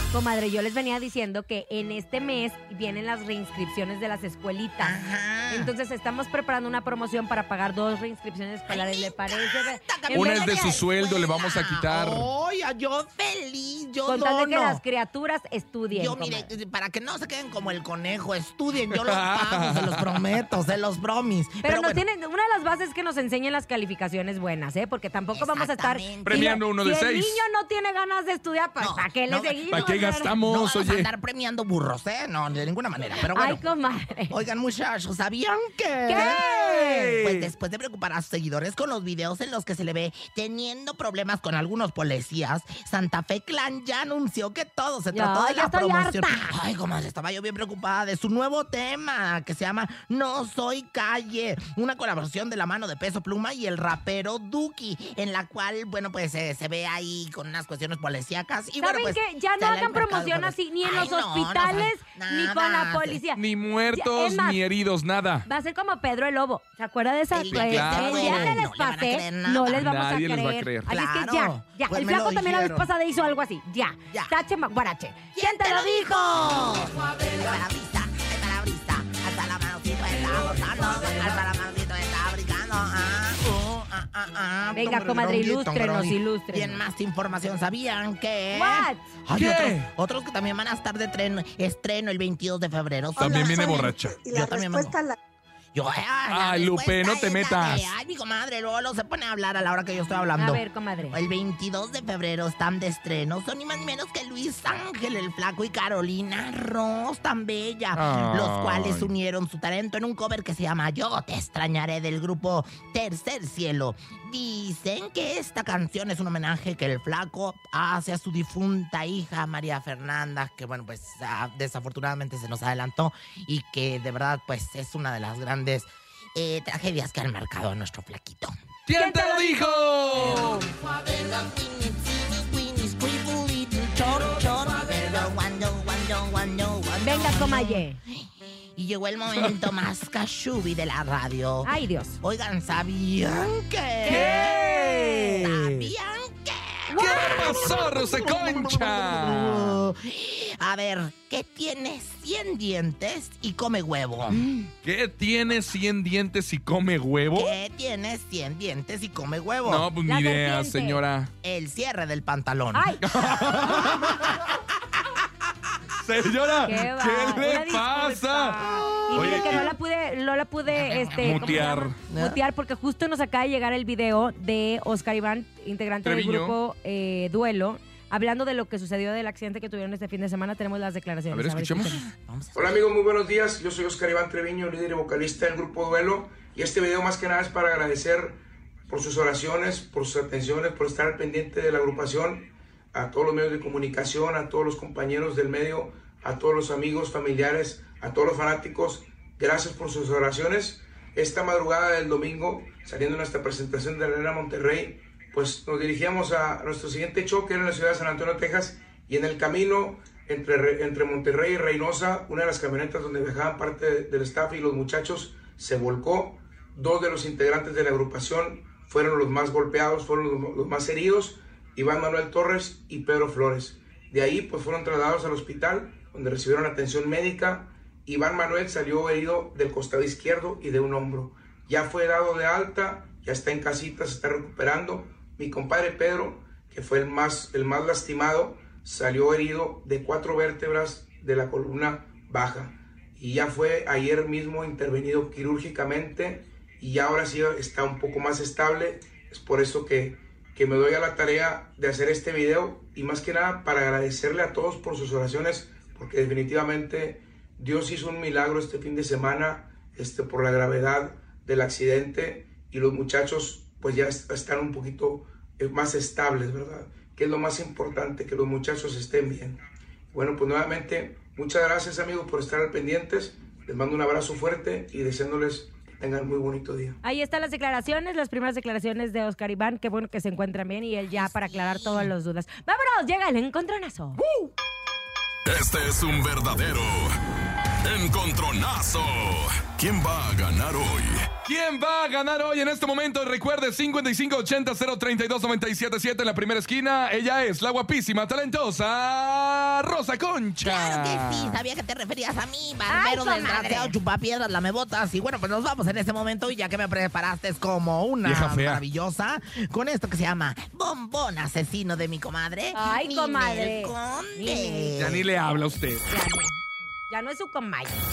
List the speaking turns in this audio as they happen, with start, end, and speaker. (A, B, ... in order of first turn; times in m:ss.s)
0:00.1-0:05.0 A
0:04.8-0:05.7 B
0:05.5-0:10.6 A
0:08.7-0:14.8 B
0:10.1-0:12.3 C
0:14.0-0:16.5 A
0:15.9-0:22.0 B
0:18.9-0:20.2 C
0:21.6-0:30.3 A
0:25.3-0:26.6 B
0:26.2-0:27.4 C
0:28.8-0:33.6 B
0:29.7-0:31.1 C
0:33.3-0:34.4 A
0:34.3-1:03.2 B
0:36.1-0:37.2 A
0:36.2-0:37.5 C
0:45.1-0:46.5 A
0:58.8-1:03.4 A
1:03.4-1:05.5 C
1:03.9-1:04.6 A
1:05.4-1:16.2 A
1:07.3-1:09.9 B
1:07.5-1:08.6 C
1:09.7-1:10.9 C
1:10.8-1:12.9 B
1:14.1-1:14.3 B
1:15.3-1:35.0 B
1:24.7-1:26.8 A
1:28.5-1:29.0 A
1:29.3-1:29.9 C
1:33.2-1:34.2 C
1:33.2-1:35.2 D
1:35.7-2:08.5 B
1:36.3-1:37.9 C
1:40.4-1:41.2 A
1:47.9-1:49.1 C
2:08.8-2:10.6 C
2:09.0-2:10.7 A
2:10.8-2:34.4 B
2:17.0-2:18.0 A
2:21.6-2:22.2 A
2:24.0-2:25.0 A
2:24.0-2:25.9 C
2:26.9-2:27.9 A
2:26.9-2:29.8 C
2:34.4-2:37.5 C
2:37.3-2:39.9 B
2:39.6-2:41.3 C
2:40.0-2:41.0 A
2:41.4-2:44.5 B
2:42.7-2:43.0 A
2:43.0-2:44.4 C
2:46.0-2:49.7 C
2:46.7-3:02.0 A
2:49.0-2:49.6 B
2:50.7-2:52.4 B
2:51.2-2:52.0 C
2:56.0-2:56.6 C
3:01.3-3:02.0 C
3:01.8-3:02.9 B
3:02.5-4:29.6 E
4:30.1-4:37.0 E
4:37.0-4:44.2 A
4:41.5-4:42.0 B
4:44.2-4:44.5 C
4:45.4-4:47.2 F
4:47.8-4:51.3 F
4:51.4-5:01.6 C
5:00.6-5:15.2 B
5:02.9-5:03.9 A
5:08.2-5:08.8 C
5:12.7-5:14.9 A
5:15.0-5:16.0 C
5:16.1-5:18.0 A